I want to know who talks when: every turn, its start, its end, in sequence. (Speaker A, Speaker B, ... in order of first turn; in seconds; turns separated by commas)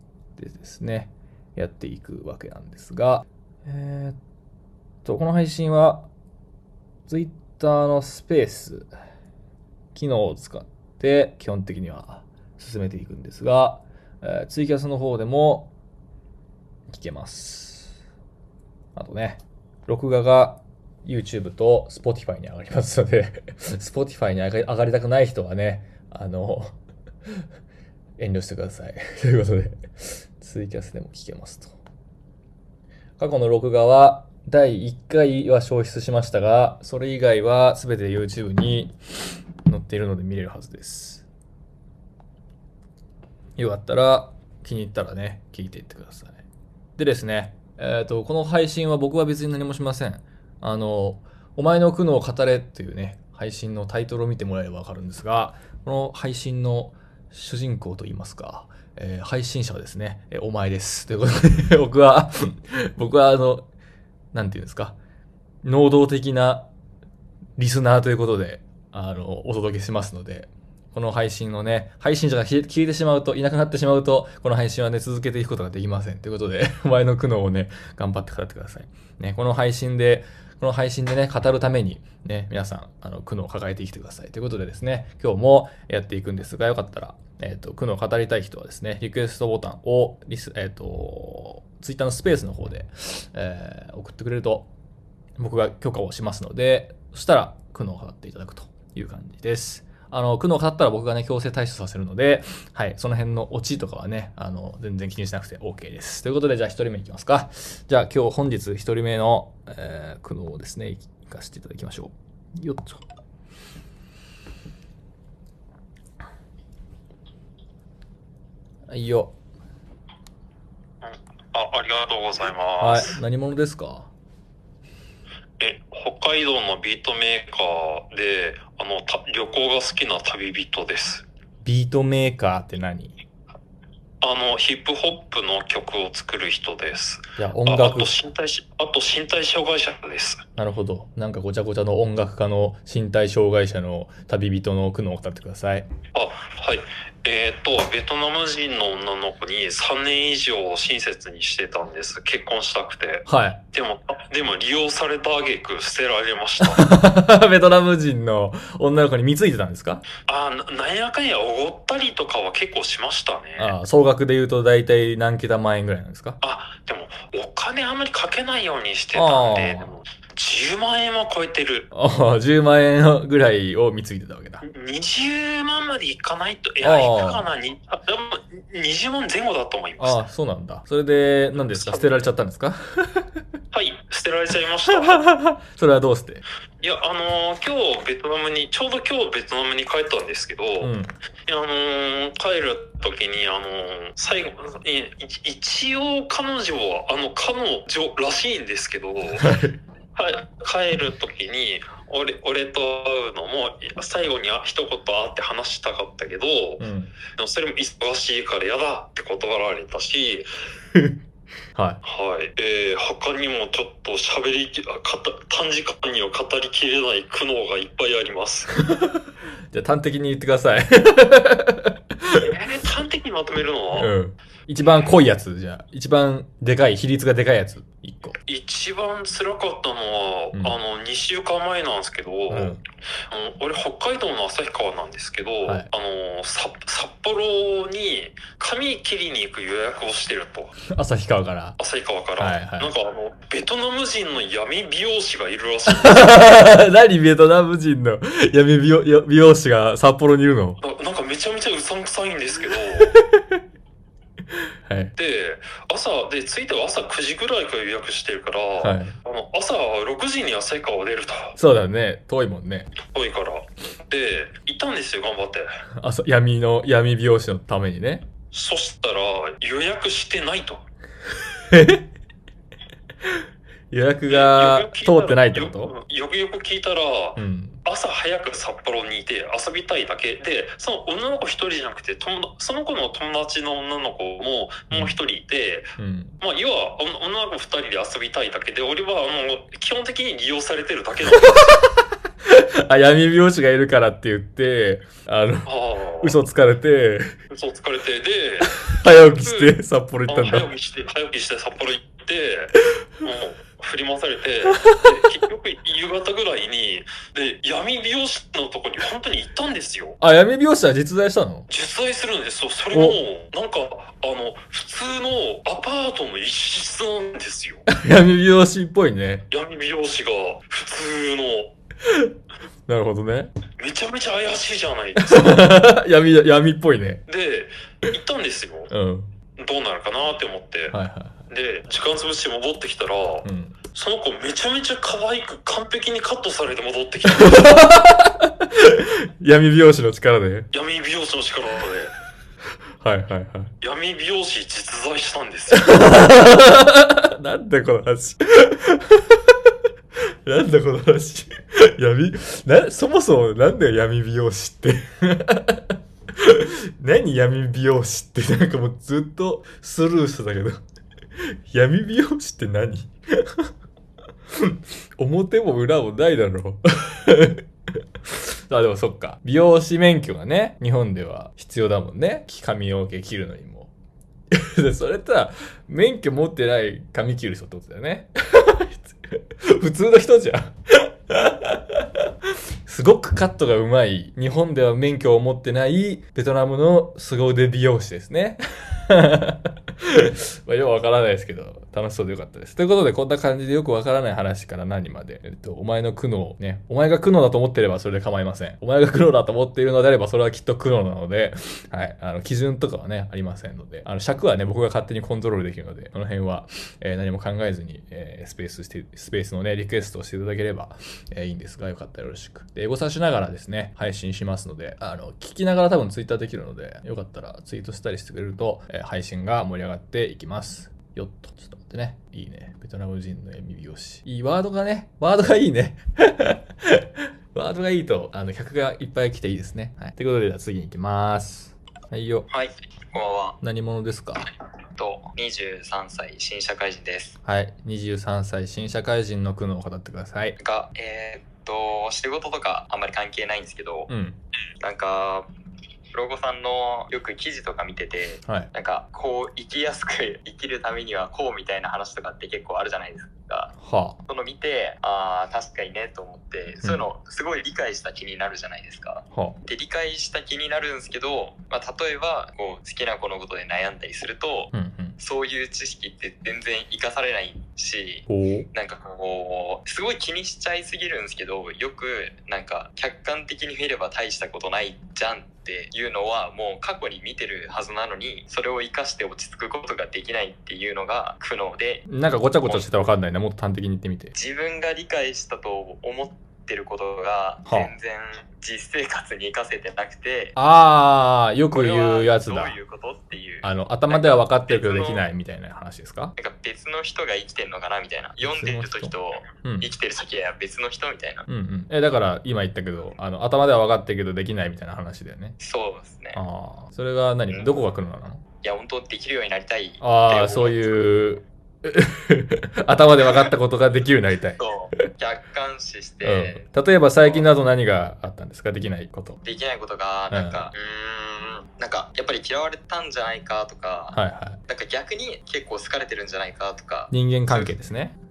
Speaker A: 0.4-4.2, Speaker A: 5.0-6.1, Speaker A: 7.1-8.9, Speaker A: 9.9-15.7, Speaker A: 16.9-17.9, Speaker A: 18.9-26.8, Speaker A: 28.2-31.7, Speaker A: 33.2-38.9, Speaker A: 39.7-41.2, Speaker A: 43.6-46.4, Speaker A: 47.0-63.7, Speaker A: 64.3-65.0, Speaker A: 65.6-66.7, Speaker A: 67.6-94.7, Speaker A: 95.4-113.0, Speaker A: 118.9-119.3, Speaker B: 121.0-123.2, Speaker A: 122.8-124.1, Speaker B: 125.6-131.2, Speaker A: 131.6-133.2, Speaker B: 134.2-140.4, Speaker A: 137.4-138.1, Speaker A: 140.6-145.9, Speaker B: 146.1-156.8, Speaker A: 153.3-153.6, Speaker A: 156.6-160.0, Speaker B: 160.3-163.7, Speaker A: 163.6-166.4, Speaker B: 166.4-171.9, Speaker A: 169.1-169.9, Speaker A: 171.9-174.6, Speaker B: 174.7-180.2, Speaker A: 176.8-177.5, Speaker A: 180.0-183.3, Speaker B: 181.6-182.1, Speaker B: 183.7-185.2, Speaker A: 184.9-186.4, Speaker B: 186.8-190.9, Speaker A: 190.8-191.1, Speaker B: 191.5-199.6, Speaker A: 199.4-199.8, Speaker B: 200.2-206.8, Speaker A: 206.8-207.1, Speaker B: 207.4-210.5, Speaker A: 211.8-212.0, Speaker B: 212.0-218.7, Speaker A: 218.9-219.2, Speaker A: 219.7-222.4, Speaker B: 222.5-224.1, Speaker A: 224.0-228.4, Speaker B: 228.5-232.8, Speaker A: 232.5-232.8, Speaker B: 233.3-240.7, Speaker A: 240.9-241.8, Speaker B: 241.8-246.4, Speaker A: 242.4-242.9, Speaker A: 246.0-250.8, Speaker B: 250.8-253.1, Speaker A: 253.1-253.6, Speaker A: 254.9-255.1, Speaker B: 255.2-261.5, Speaker A: 258.8-259.1, Speaker A: 261.6-262.9, Speaker B: 263.1-265.7, Speaker A: 266.0-268.2, Speaker B: 268.5-270.8, Speaker A: 271.7-272.1, Speaker A: 273.3-275.9, Speaker B: 274.3-291.8, Speaker A: 277.4-277.8, Speaker A: 286.0-286.3, Speaker A: 291.4-291.6, Speaker A: 292.5-295.7, Speaker B: 295.7-296.3, Speaker A: 296.2-297.3, Speaker B: 297.5-299.7, Speaker A: 299.0-300.7, Speaker B: 300.3-310.2, Speaker A: 310.2-311.7, Speaker B: 311.7-317.9, Speaker A: 317.9-319.4, Speaker B: 319.5-321.7, Speaker A: 322.9-323.5, Speaker B: 323.8-325.6, Speaker A: 325.2-327.2, Speaker B: 327.3-328.9, Speaker A: 328.9-329.3, Speaker B: 329.6-330.9, Speaker A: 330.9-331.4, Speaker B: 331.5-337.8, Speaker A: 333.4-333.8, Speaker A: 337.3-340.7, Speaker B: 340.7-342.1, Speaker A: 343.0-343.7, Speaker B: 343.8-346.0, Speaker A: 345.7-349.2, Speaker A: 350.4-355.8, Speaker A: 356.4-360.8, Speaker A: 361.7-363.6, Speaker A: 364.6-367.6, Speaker A: 368.7-373.9, Speaker A: 374.5-382.0, Speaker A: 382.9-432.5, Speaker C: 432.5-433.6, Speaker A: 433.6-434.4, Speaker C: 435.0-437.4, Speaker A: 437.4-440.6, Speaker C: 440.6-444.1, Speaker A: 444.1-444.4, Speaker C: 444.8-445.5, Speaker C: 446.1-453.7, Speaker A: 453.8-454.2, Speaker C: 454.3-482.0, Speaker A: 459.3-459.6, Speaker A: 464.7-465.1, Speaker A: 468.3-468.7, Speaker A: 482.1-484.3, Speaker C: 482.6-482.9, Speaker C: 484.3-490.6, Speaker A: 487.7-487.9, Speaker A: 490.6-492.8, Speaker C: 491.7-495.2, Speaker A: 493.6-496.3, Speaker C: 496.4-501.5, Speaker A: 498.4-499.9, Speaker A: 501.5-505.6, Speaker C: 505.6-506.4, Speaker A: 506.3-508.4, Speaker C: 508.6-510.9, Speaker A: 510.0-514.6, Speaker C: 514.6-516.7, Speaker A: 516.2-519.4, Speaker C: 519.4-524.2, Speaker A: 520.3-520.7, Speaker A: 524.1-524.6, Speaker C: 524.7-527.7, Speaker A: 527.1-528.1